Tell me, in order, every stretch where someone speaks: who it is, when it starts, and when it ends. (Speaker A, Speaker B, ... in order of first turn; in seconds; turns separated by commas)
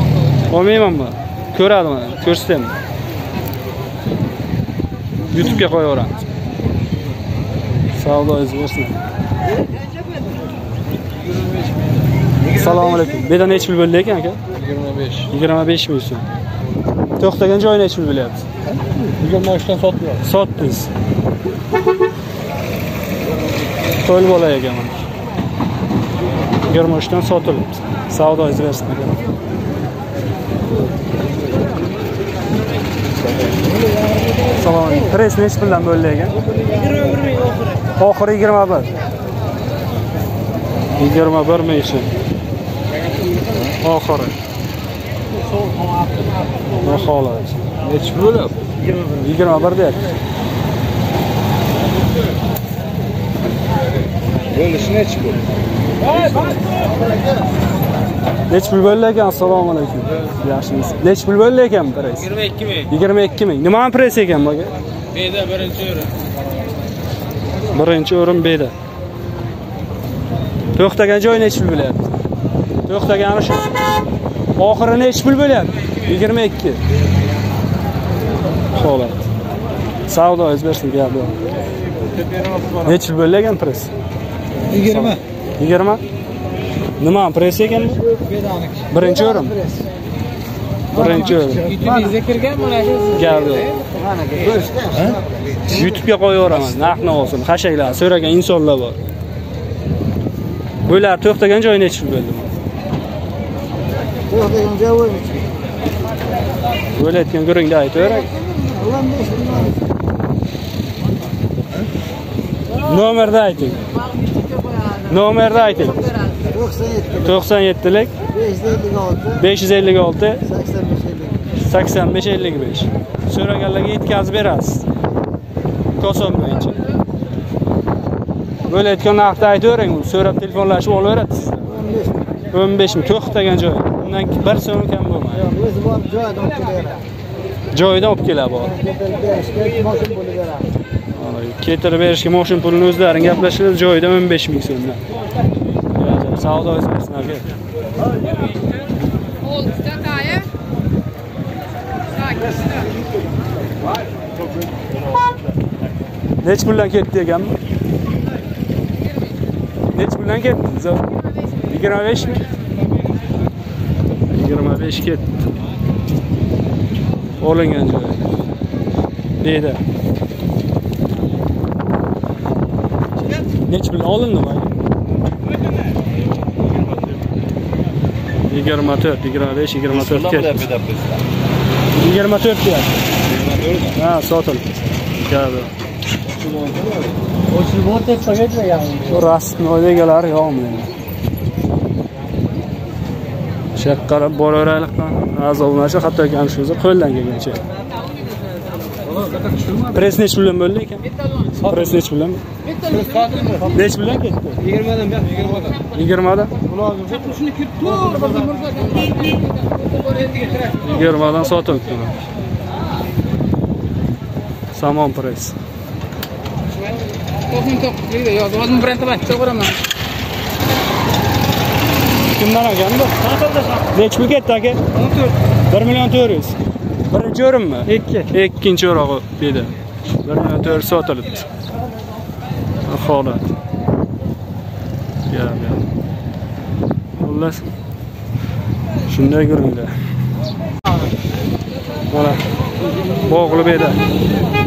Speaker A: 0.5-2.7, Speaker A: 5.3-6.2, Speaker A: 7.9-9.0, Speaker B: 9.8-10.1, Speaker A: 12.5-14.4, Speaker B: 14.7-15.1, Speaker A: 15.2-16.2, Speaker A: 17.2-18.5, Speaker B: 18.8-20.1, Speaker A: 20.1-20.9, Speaker A: 24.0-25.1, Speaker A: 26.6-29.2, Speaker A: 34.5-36.4, Speaker B: 36.8-37.2, Speaker A: 38.0-38.9, Speaker A: 41.0-42.1, Speaker A: 43.8-44.4, Speaker A: 46.8-47.6, Speaker B: 47.9-48.5, Speaker A: 49.1-50.1, Speaker B: 54.5-55.3, Speaker A: 58.5-64.7, Speaker B: 65.4-65.9, Speaker A: 67.7-68.7, Speaker A: 70.7-72.1, Speaker A: 72.9-73.7, Speaker A: 74.6-76.8, Speaker A: 78.7-79.3, Speaker A: 80.1-81.4, Speaker A: 82.8-83.9, Speaker B: 84.7-85.0, Speaker A: 84.7-86.0, Speaker A: 87.0-88.0, Speaker B: 88.4-88.7, Speaker A: 88.9-89.6, Speaker A: 90.9-91.8, Speaker B: 91.7-93.0, Speaker A: 93.1-93.7, Speaker B: 94.2-95.2, Speaker A: 95.7-99.0, Speaker A: 100.8-102.5, Speaker B: 104.3-105.3, Speaker A: 107.0-108.3, Speaker B: 108.6-109.7, Speaker A: 112.8-113.8, Speaker C: 114.5-114.9, Speaker A: 115.0-116.1, Speaker A: 117.1-118.2, Speaker B: 118.7-119.1, Speaker A: 119.2-120.6, Speaker B: 120.9-121.3, Speaker A: 121.6-124.8, Speaker A: 126.0-126.8, Speaker A: 128.7-131.7, Speaker A: 132.5-135.6, Speaker B: 135.9-136.9, Speaker A: 137.7-138.8, Speaker B: 139.3-140.6, Speaker A: 141.1-145.0, Speaker A: 146.0-147.5, Speaker C: 149.5-150.5, Speaker A: 156.4-157.6, Speaker A: 159.9-161.0, Speaker A: 161.6-162.5, Speaker A: 164.3-165.5, Speaker A: 167.4-168.3, Speaker A: 169.4-169.8, Speaker A: 173.7-174.7, Speaker A: 178.5-180.7, Speaker B: 180.4-181.2, Speaker A: 181.9-183.0, Speaker B: 183.4-183.9, Speaker A: 183.9-185.7, Speaker C: 187.8-188.9, Speaker A: 189.0-190.9, Speaker A: 193.7-197.6, Speaker A: 199.8-202.4, Speaker B: 202.8-203.7, Speaker A: 203.7-204.6, Speaker B: 204.7-205.6, Speaker A: 205.9-206.5, Speaker B: 207.0-208.6, Speaker C: 207.7-209.5, Speaker C: 210.1-210.6, Speaker A: 210.8-212.2, Speaker A: 214.7-215.5, Speaker C: 217.5-219.8, Speaker A: 222.3-224.8, Speaker A: 225.7-226.6, Speaker A: 227.1-229.7, Speaker A: 230.2-231.5, Speaker A: 232.8-233.5, Speaker A: 235.3-235.8, Speaker A: 237.2-237.6, Speaker A: 239.1-239.9, Speaker A: 242.1-242.4, Speaker A: 243.2-244.0